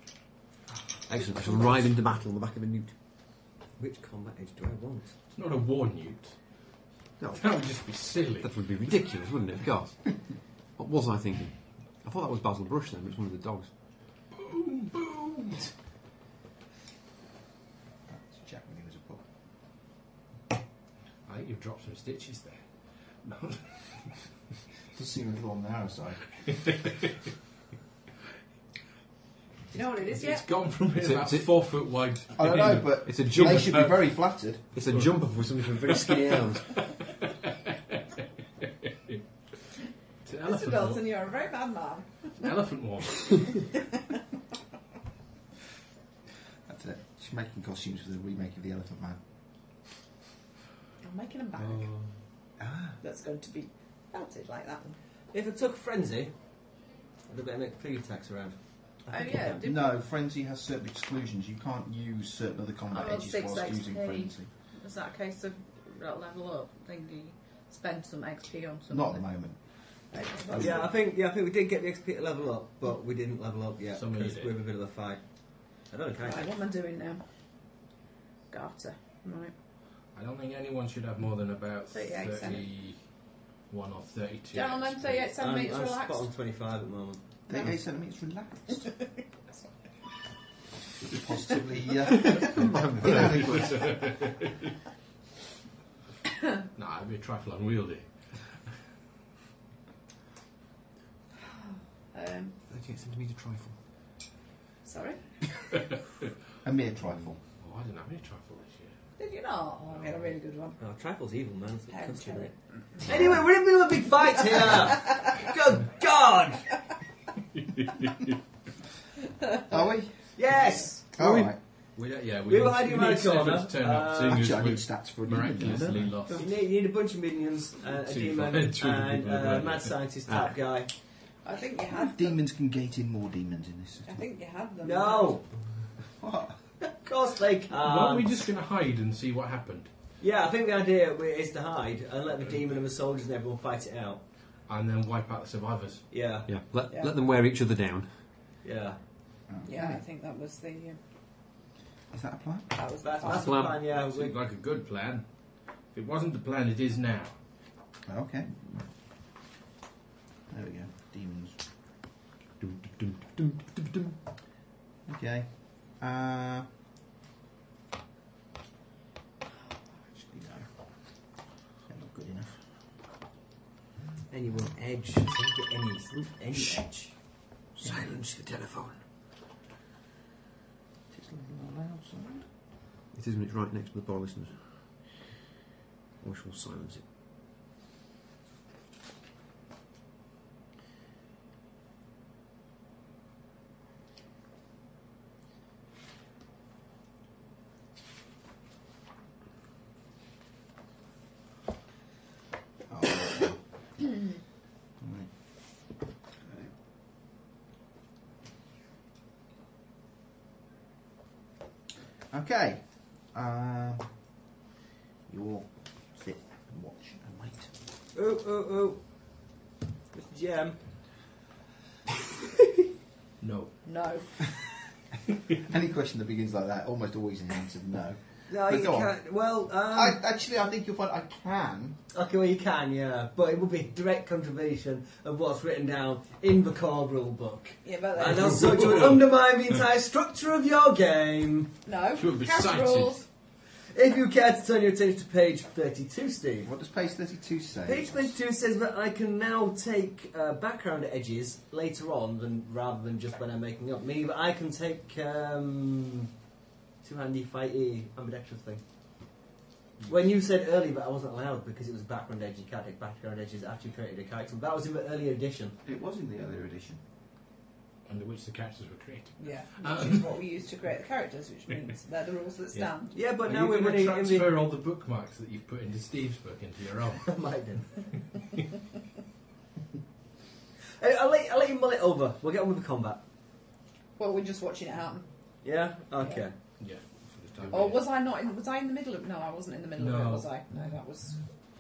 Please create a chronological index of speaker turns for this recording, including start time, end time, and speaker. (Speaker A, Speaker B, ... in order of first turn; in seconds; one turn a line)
Speaker A: 1.1-2.9
Speaker B: 3.8-5.1
Speaker C: 5.3-6.4
Speaker C: 7.3-8.5
Speaker A: 8.4-13.7
Speaker C: 14.3-15.7
Speaker D: 18.1-19.2
Speaker C: 21.3-22.6
Speaker C: 23.2-24.1
Speaker D: 24.9-26.3
Speaker C: 26.7-26.9
Speaker E: 29.7-30.5
Speaker C: 30.1-33.8
Speaker A: 31.0-31.6
Speaker D: 32.4-34.6
Speaker A: 33.1-34.0
Speaker A: 34.7-36.8
Speaker C: 35.9-36.1
Speaker C: 40.3-41.1
Speaker E: 40.4-42.3
Speaker C: 42.4-43.7
Speaker D: 46.7-49.2
Speaker E: 51.0-51.9
Speaker D: 52.6-53.0
Speaker E: 53.0-55.0
Speaker B: 55.3-56.3
Speaker B: 57.3-59.6
Speaker E: 59.1-60.0
Speaker D: 59.6-64.5
Speaker E: 62.9-69.3
Speaker D: 68.9-69.6
Speaker E: 70.1-70.9
Speaker B: 70.6-75.2
Speaker C: 74.0-74.6
Speaker B: 75.8-76.5
Speaker E: 76.2-77.2
Speaker E: 78.5-79.5
Speaker C: 80.2-83.0
Speaker E: 81.9-82.7
Speaker C: 83.7-85.3
Speaker E: 84.5-86.3
Speaker B: 85.4-87.2
Speaker D: 87.5-89.1
Speaker D: 91.1-94.1
Speaker A: 92.2-93.9
Speaker C: 93.0-94.5
Speaker C: 96.8-98.1
Speaker E: 102.1-102.5
Speaker A: 102.7-103.8
Speaker E: 104.8-105.2
Speaker D: 106.6-107.4
Speaker C: 107.6-109.0
Speaker E: 109.2-110.8
Speaker C: 110.0-110.2
Speaker B: 110.8-112.5
Speaker E: 111.9-113.0
Speaker B: 113.1-116.7
Speaker C: 117.9-118.3
Speaker D: 119.7-120.3
Speaker B: 120.3-121.1
Speaker D: 121.1-121.6
Speaker A: 121.2-121.5
Speaker C: 122.0-126.5
Speaker B: 122.5-124.5
Speaker D: 124.3-126.4
Speaker A: 125.7-125.9
Speaker B: 126.4-130.9
Speaker C: 128.1-129.9
Speaker A: 130.3-130.6
Speaker E: 131.4-132.4
Speaker D: 131.9-134.2
Speaker E: 134.1-135.4
Speaker B: 134.8-135.5
Speaker D: 136.2-136.9
Speaker B: 137.0-138.4
Speaker C: 137.7-139.9
Speaker B: 140.2-144.2
Speaker C: 144.7-146.1
Speaker B: 146.1-146.5
Speaker A: 146.5-148.1
Speaker B: 148.6-149.0
Speaker D: 149.5-150.0
Speaker E: 149.6-151.0
Speaker D: 152.1-152.9
Speaker E: 152.7-153.5
Speaker B: 153.0-154.3
Speaker A: 153.2-153.8
Speaker C: 153.8-155.3
Speaker C: 155.9-157.3
Speaker D: 158.1-158.6
Speaker D: 160.5-161.6
Speaker A: 162.6-164.2
Speaker D: 165.1-166.7
Speaker D: 170.1-171.2
Speaker D: 171.9-172.6
Speaker B: 174.3-177.2
Speaker A: 177.8-178.9
Speaker D: 177.8-178.2
Speaker D: 181.1-182.5
Speaker A: 183.1-185.1
Speaker A: 186.2-187.0
Speaker D: 202.9-204.2
Speaker D: 205.0-205.3
Speaker D: 206.4-206.7
Speaker D: 212.3-214.1
Speaker D: 215.3-217.7
Speaker B: 218.2-219.0
Speaker B: 220.1-220.8
Speaker C: 223.4-223.7
Speaker E: 223.8-224.3
Speaker D: 225.7-229.1
Speaker B: 228.5-230.2
Speaker D: 229.9-232.0
Speaker B: 232.1-241.8
Speaker E: 237.8-239.0
Speaker C: 238.7-239.3
Speaker E: 241.9-243.3
Speaker C: 242.2-243.2
Speaker B: 243.9-246.7
Speaker D: 246.6-248.3
Speaker B: 247.8-256.3
Speaker B: 257.0-258.8
Speaker B: 260.1-265.8
Speaker D: 265.9-267.0
Speaker C: 268.1-270.4
Speaker E: 269.4-273.1
Speaker B: 273.1-274.6
Speaker C: 273.4-277.3
Speaker B: 277.3-277.9
Speaker B: 281.0-283.2
Speaker E: 284.2-285.3
Speaker B: 285.6-286.5
Speaker E: 286.2-286.5
Speaker C: 286.8-288.1
Speaker E: 287.7-291.4
Speaker C: 290.0-290.5